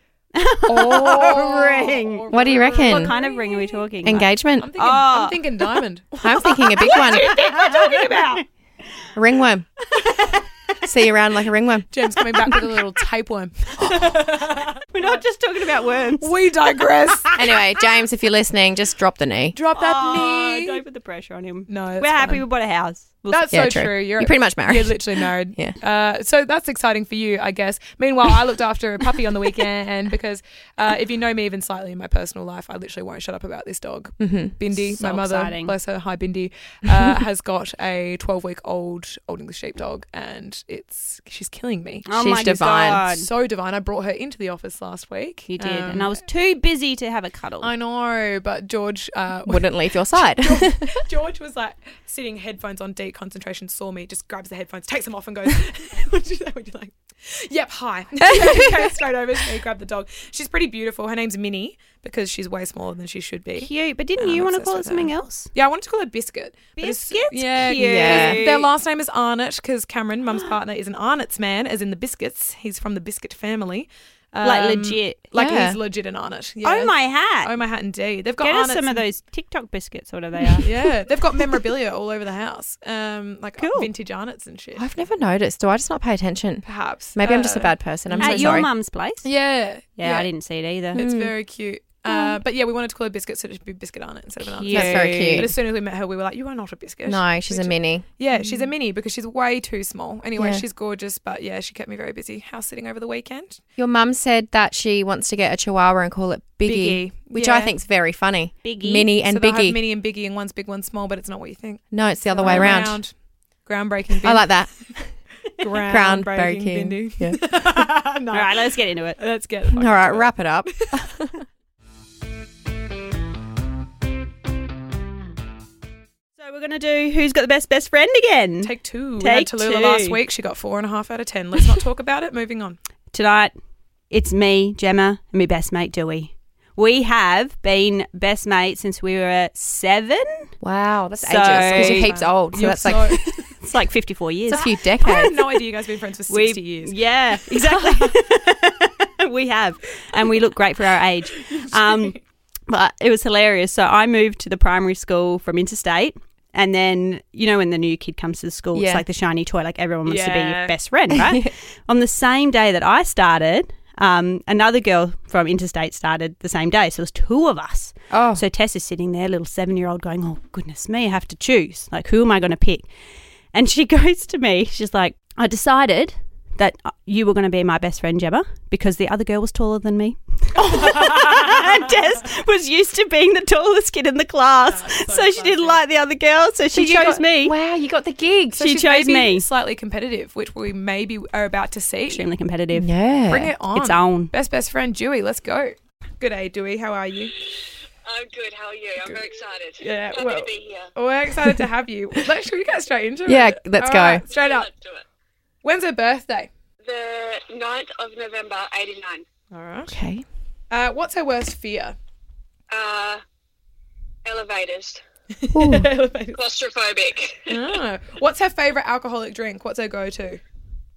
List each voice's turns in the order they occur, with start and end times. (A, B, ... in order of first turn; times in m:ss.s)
0:00.4-0:05.7 A
0:00.6-0:03.8 B
0:02.3-0:03.1 C
0:04.0-0:04.7 C
0:04.6-0:08.4 B
0:06.2-0:07.3 C
0:06.9-0:08.4 A
0:09.1-0:09.7 C
0:09.9-0:10.4 A
0:10.8-0:11.9 C
0:11.9-0:15.2 B
0:13.8-0:16.4 A
0:16.2-0:17.4 B
0:17.0-0:17.5 A
0:17.4-0:19.6 C
0:19.5-0:20.8 B
0:19.7-0:23.5 A
0:21.7-0:22.4 B
0:23.3-0:42.1 B
0:23.5-0:25.8 C
0:34.2-0:34.6 C
0:34.8-0:35.8 A
0:42.0-0:43.3 A
0:42.2-0:43.0 C
0:43.1-0:46.1 B
0:45.5-0:47.7 A
0:47.6-1:19.1 B
0:49.5-0:51.0 C
0:58.4-0:58.8 C
1:03.5-1:05.5 A
1:06.8-1:08.7 A
1:07.8-1:08.4 C
1:14.4-1:15.2 A
1:15.3-1:15.8 C
1:16.6-1:17.6 A
1:18.4-1:20.8 A
1:20.6-1:24.9 B
1:23.6-1:23.9 A
1:24.8-1:28.7 C
1:26.6-1:28.6 B
1:28.2-1:29.3 A
1:29.2-1:30.3 B
1:30.0-1:31.0 A
1:30.9-1:43.6 B
1:31.0-1:31.3 C
1:32.1-1:32.4 C
1:34.4-1:35.5 A
1:34.7-1:35.5 C
1:37.0-1:38.2 C
1:40.4-1:40.6 C
1:43.8-1:49.8 C
1:46.6-1:47.7 B
1:48.6-1:49.1 A
1:49.2-1:53.1 B
1:51.9-1:53.0 C
1:53.6-1:54.5 B
1:54.2-1:54.8 C
1:55.6-2:01.1 B
1:55.8-1:57.4 C
1:58.3-1:59.2 A
1:59.7-2:01.2 C
2:06.4-2:10.2 A
2:08.6-2:12.8 B
2:13.1-2:13.5 A
2:14.1-2:20.5 A
2:20.6-2:23.4 C
2:21.2-2:22.1 A
2:21.5-2:23.4 B
2:23.6-2:24.7 A
2:24.5-2:25.4 C
2:24.5-2:26.9 B
2:26.3-2:52.9 A
2:27.8-2:28.1 B
2:31.5-2:32.1 B
2:38.7-2:39.0 C
2:40.0-2:40.7 B
2:41.3-2:41.5 C
2:48.1-2:48.4 C
2:53.5-3:07.5 A
3:04.6-3:05.8 B
3:06.7-3:08.6 C
3:08.5-3:12.2 B
3:08.6-3:09.5 A
3:12.1-3:12.9 A
3:12.7-3:13.5 C
3:13.3-3:17.3 B
3:13.7-3:14.3 A
3:18.0-3:20.9 D
3:19.0-3:19.3 B
3:19.8-3:24.7 B
3:23.3-3:24.2 C
3:24.3-3:25.0 D
3:25.6-3:26.5 B
3:26.8-3:29.2 D
3:29.5-3:29.9 B
3:29.9-3:30.2 C
3:30.7-3:32.0 B
3:32.7-3:33.2 D
3:34.2-3:35.0 D
3:35.4-3:36.4 B
3:35.5-3:35.9 C
3:36.3-3:37.8 D
3:37.5-3:40.4 B